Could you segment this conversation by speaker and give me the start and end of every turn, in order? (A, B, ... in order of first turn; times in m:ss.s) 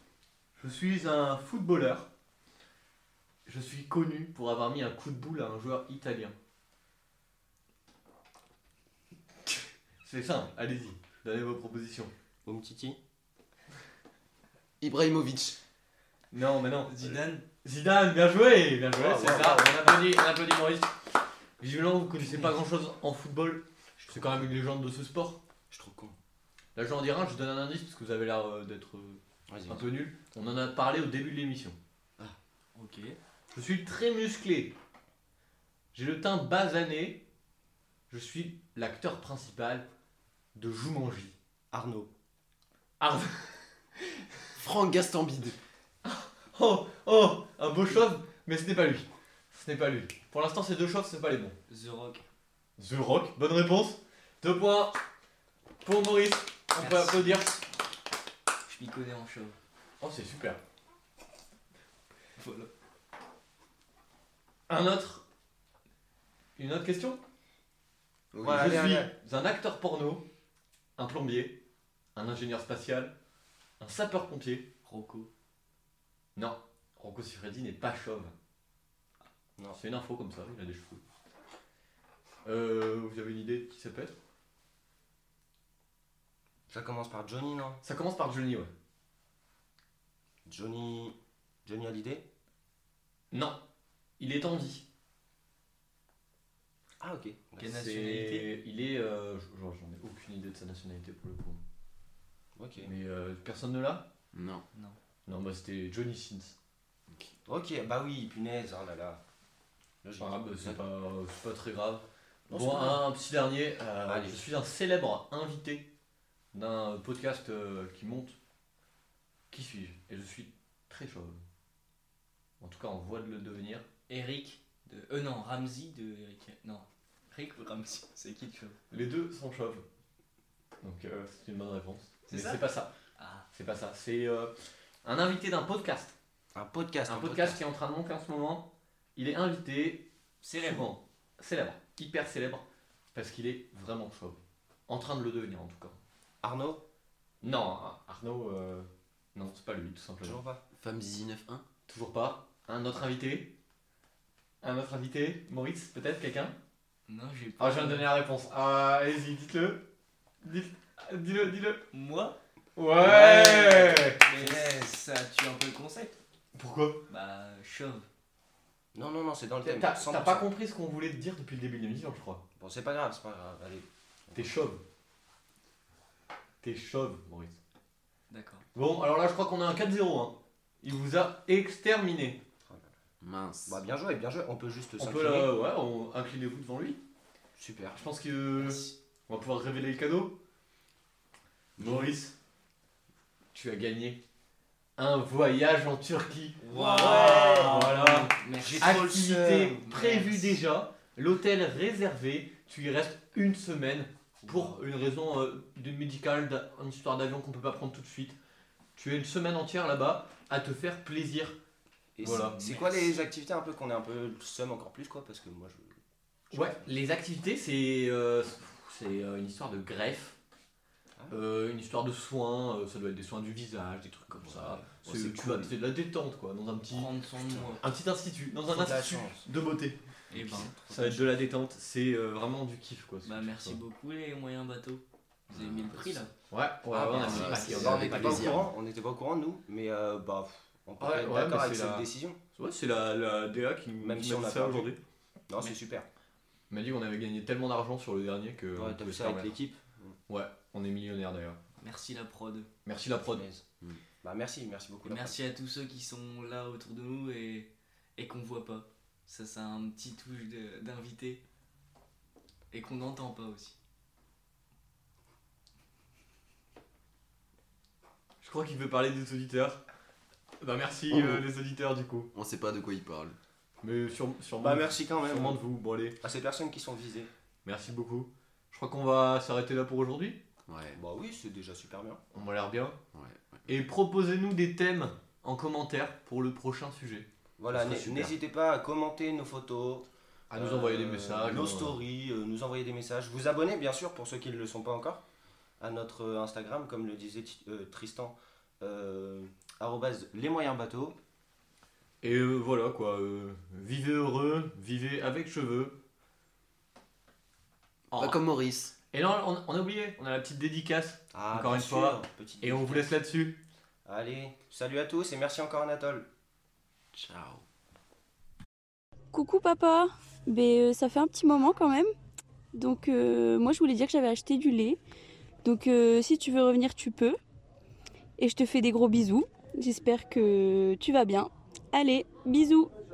0:00.6-0:02.1 A
0:03.5-0:06.4 A
0:10.0-0:12.1 A
0:12.4-0:13.0 B
0:14.8-0:15.6 C
0:16.3-0:20.9 A
0:16.9-0:17.5 D
0:18.9-0:20.1 B
0:21.6-0:25.4 A
0:22.2-0:22.5 B
0:24.0-0:24.5 B
0:25.7-0:26.2 B
0:26.8-0:31.8 A
0:29.5-0:29.9 B
0:32.8-0:33.2 D
0:33.5-0:34.8 A
0:35.9-0:37.2 A
0:38.1-0:39.9 A
0:40.6-0:41.4 A
0:41.7-0:42.1 B
0:43.0-0:43.8 A
0:44.6-0:45.6 C
0:46.0-0:51.6 A
0:51.7-0:52.2 D
0:52.8-0:55.0 A
0:55.8-0:57.6 A
0:56.8-0:57.6 D
0:58.7-0:59.6 D
1:00.0-1:00.6 A
1:02.4-1:02.7 D
1:04.7-1:05.2 A
1:06.6-1:07.2 A
1:08.3-1:09.0 C
1:08.4-1:09.1 B
1:08.4-1:10.3 A
1:11.0-1:11.6 A
1:12.2-1:13.2 A
1:13.8-1:14.7 A
1:14.9-1:15.3 D
1:16.4-1:18.3 A
1:19.7-1:21.0 A
1:22.4-1:24.2 A
1:26.7-1:27.8 B
1:27.8-1:28.7 A
1:30.5-1:32.3 B
1:33.3-1:33.6 A
1:34.2-1:34.9 A
1:37.0-1:37.7 B
1:37.6-1:38.5 D
1:37.6-1:41.6 A
1:42.6-1:42.9 B
1:42.8-1:44.1 A
1:44.3-1:44.6 C
1:44.7-1:45.0 D
1:45.3-1:46.6 A
1:47.5-1:49.2 B
1:50.0-1:50.8 B
1:50.2-1:55.9 A
1:52.5-1:53.1 B
1:54.1-1:54.6 B
1:56.5-1:58.4 A
1:59.5-2:01.4 A
2:02.6-2:03.9 A
2:04.1-2:08.8 D
2:08.9-2:09.8 A
2:10.8-2:12.9 A
2:12.3-2:13.5 D
2:13.5-2:14.5 A
2:15.0-2:16.2 A
2:16.6-2:17.6 B
2:17.1-2:26.0 A
2:20.4-2:20.9 D
2:26.4-2:26.8 B
2:27.4-2:30.4 A
2:30.2-2:30.6 B
2:30.7-2:31.7 C
2:31.9-2:33.5 A
2:34.6-2:36.6 A
2:37.1-2:38.2 D
2:37.6-2:39.8 A
2:40.4-2:41.8 A
2:41.9-2:42.4 D
2:42.8-2:44.2 A
2:43.0-2:46.2 D
2:43.0-2:43.7 B
2:44.4-2:44.8 B
2:46.5-2:47.0 A
2:47.1-2:48.1 D
2:48.9-2:50.5 B
2:49.6-2:52.4 A
2:52.6-2:54.6 B
2:54.3-2:54.8 A
2:56.6-2:57.6 A
2:58.3-2:58.7 D
2:58.8-3:02.4 A
3:02.6-3:02.9 B
3:03.2-3:03.8 C
3:03.7-3:05.6 B
3:05.0-3:07.0 A
3:07.6-3:08.0 B
3:07.9-3:10.4 A
3:08.6-3:08.9 D
3:11.8-3:12.2 B
3:11.8-3:12.4 A
3:13.5-3:14.2 A
3:15.0-3:28.4 A
3:16.6-3:19.8 B
3:16.7-3:19.2 D
3:19.8-3:20.6 D
3:24.4-3:24.8 D
3:29.0-3:31.6 A
3:32.2-3:36.0 B
3:32.2-3:32.6 A
3:32.2-3:33.3 D
3:36.5-3:36.9 B
3:36.5-3:40.4 A
3:41.3-3:47.1 A
3:44.3-3:45.8 C
3:46.9-3:47.8 D
3:47.5-3:47.8 B
3:47.8-3:50.1 A
3:48.7-3:49.4 B
3:50.3-3:51.2 D
3:50.4-3:50.7 C
3:50.9-3:53.8 A
3:53.2-3:56.3 D
3:55.5-3:56.2 C
3:56.5-3:58.6 A
3:56.9-4:02.4 B
3:57.1-3:58.7 C
4:01.0-4:05.0 A
4:04.0-4:05.0 B
4:05.5-4:06.1 B
4:06.7-4:09.6 A
4:08.8-4:10.2 B
4:10.3-4:11.6 A
4:11.8-4:12.7 D
4:12.9-4:13.5 A
4:13.3-4:13.6 B
4:14.2-4:15.4 B
4:15.0-4:21.4 D
4:22.7-4:23.8 D
4:28.4-4:29.8 A
4:30.6-4:32.3 A
4:31.1-4:31.5 C
4:32.3-4:33.4 C
4:33.8-4:36.2 A
4:34.6-4:35.6 B
4:36.2-4:37.3 B
4:37.6-4:40.4 A
4:40.7-4:41.0 C
4:41.0-4:42.2 B
4:42.3-4:43.0 A
4:43.1-4:43.7 C
4:43.7-4:48.3 A
4:47.6-4:55.2 B
4:50.5-4:52.0 A
4:55.8-5:01.2 B
5:02.2-5:06.0 A
5:08.1-5:09.0 C
5:08.1-5:08.4 A
5:09.1-5:13.6 A
5:11.3-5:13.2 B
5:14.1-5:16.3 B
5:17.1-5:17.6 C
5:19.3-5:22.1 E
5:22.8-5:25.0 E
5:25.6-5:27.4 E
5:28.4-5:32.9 E